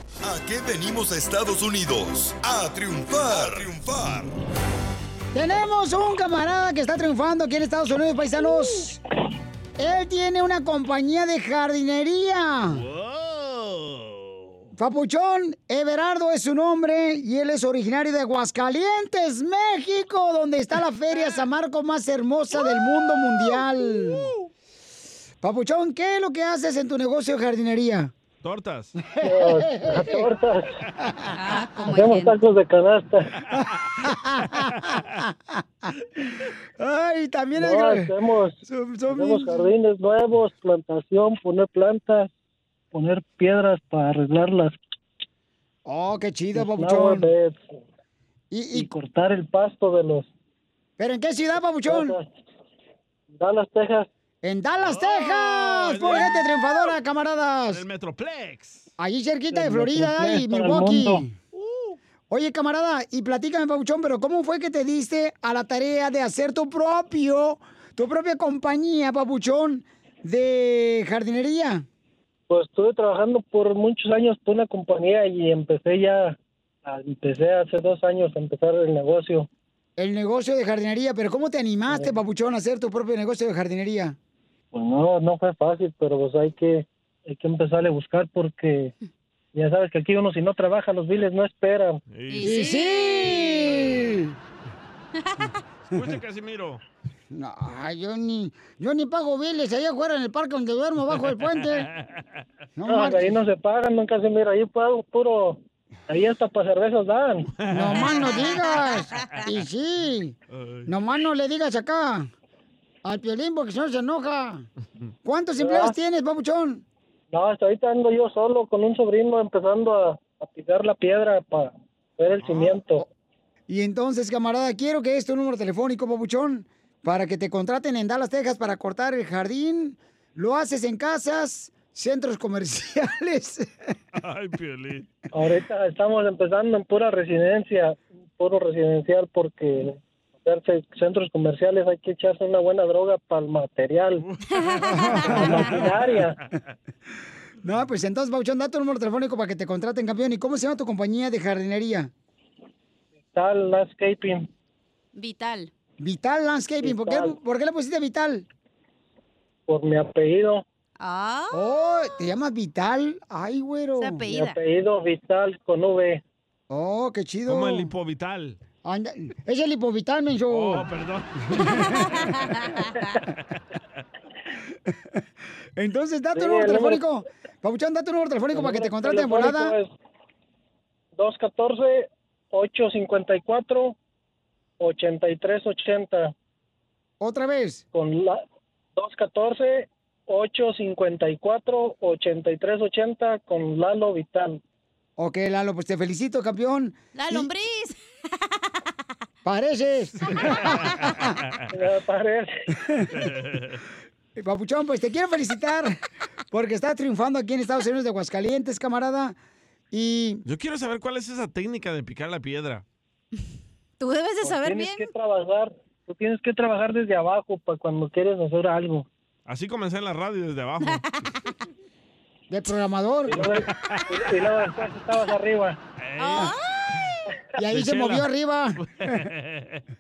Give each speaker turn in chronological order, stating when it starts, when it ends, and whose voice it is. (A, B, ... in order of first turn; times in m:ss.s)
0:00.2-0:04.3 A
0:05.3-0:09.0 B
0:09.8-0:12.8 B
0:12.8-0:14.1 C
0:14.8-0:24.3 B
0:25.4-0:28.1 B
0:28.4-0:28.9 C
0:29.0-0:30.3 B
0:29.2-0:30.7 D
0:31.0-0:31.3 B
0:31.4-0:32.3 E
0:31.9-0:33.3 D
0:33.5-0:35.9 B
0:34.6-0:35.0 C
0:36.8-0:38.1 B
0:37.5-0:42.3 D
0:38.6-0:39.6 B
0:42.9-0:44.8 D
0:45.8-0:47.3 B
0:46.5-0:47.8 D
0:48.5-0:48.9 B
0:48.7-0:50.3 D
0:51.0-0:52.1 B
0:51.8-0:52.3 D
0:53.3-0:54.1 D
0:54.4-0:57.8 B
0:54.8-0:56.9 C
0:57.7-0:58.8 C
0:59.0-1:01.3 B
0:59.5-1:01.2 D
1:01.6-1:01.9 C
1:02.3-1:11.8 B
1:12.5-1:19.5 D
1:20.0-1:24.2 B
1:21.9-1:22.1 D
1:24.7-1:28.9 D
1:29.5-1:32.0 D
1:32.1-1:32.6 C
1:32.3-1:33.7 E
1:32.4-1:34.3 B
1:35.2-1:35.5 E
1:35.9-1:36.8 C
1:37.3-1:41.9 B
1:41.4-1:41.7 C
1:42.8-1:43.4 B
1:42.9-1:47.5 D
1:47.6-1:48.4 C
1:47.7-1:52.3 B
1:48.0-1:49.3 E
1:50.5-1:50.9 C
1:53.0-1:54.7 B
1:55.2-1:56.8 B
1:55.6-1:56.0 D
1:57.3-2:03.1 D
2:02.4-2:02.8 C
2:03.7-2:13.9 B
2:14.2-2:15.1 C
2:15.3-2:24.2 D
2:24.2-2:25.0 C
2:24.9-2:25.7 B
2:25.3-2:26.4 D
2:25.9-2:26.6 C
2:27.6-2:32.1 B
2:33.3-2:34.5 D
2:35.1-2:35.7 E
2:36.0-2:38.4 B
2:36.8-2:37.4 D
2:39.7-2:40.6 D
2:41.0-2:42.1 E
2:41.5-2:44.2 B
2:44.0-2:44.6 E
2:44.3-2:46.2 D
2:46.7-2:47.9 B
2:47.5-2:48.6 C
2:48.8-2:50.8 B
2:50.5-2:52.2 C
2:55.8-2:59.7 B
2:56.3-2:57.0 D
2:58.5-2:59.9 D
3:01.2-3:04.0 D
3:04.8-3:06.3 D
3:07.2-3:07.8 B
3:07.9-3:08.4 D
3:09.0-3:14.6 D
3:15.2-3:17.5 B
3:17.1-3:18.0 E
3:19.4-3:21.3 B
3:21.7-3:22.6 D
3:22.9-3:23.2 B
3:23.2-3:23.8 C
3:24.4-3:26.0 B
3:26.5-3:29.4 B
3:29.9-3:30.4 B
3:30.4-3:32.8 C
3:34.0-3:35.1 E
3:34.4-3:39.1 D
3:39.4-3:41.0 C
3:42.5-3:43.6 B
3:43.3-3:45.8 D
3:46.0-3:46.5 C
3:46.2-3:46.9 E
3:47.6-3:49.2 B
3:47.6-3:48.3 C
3:48.8-3:49.8 C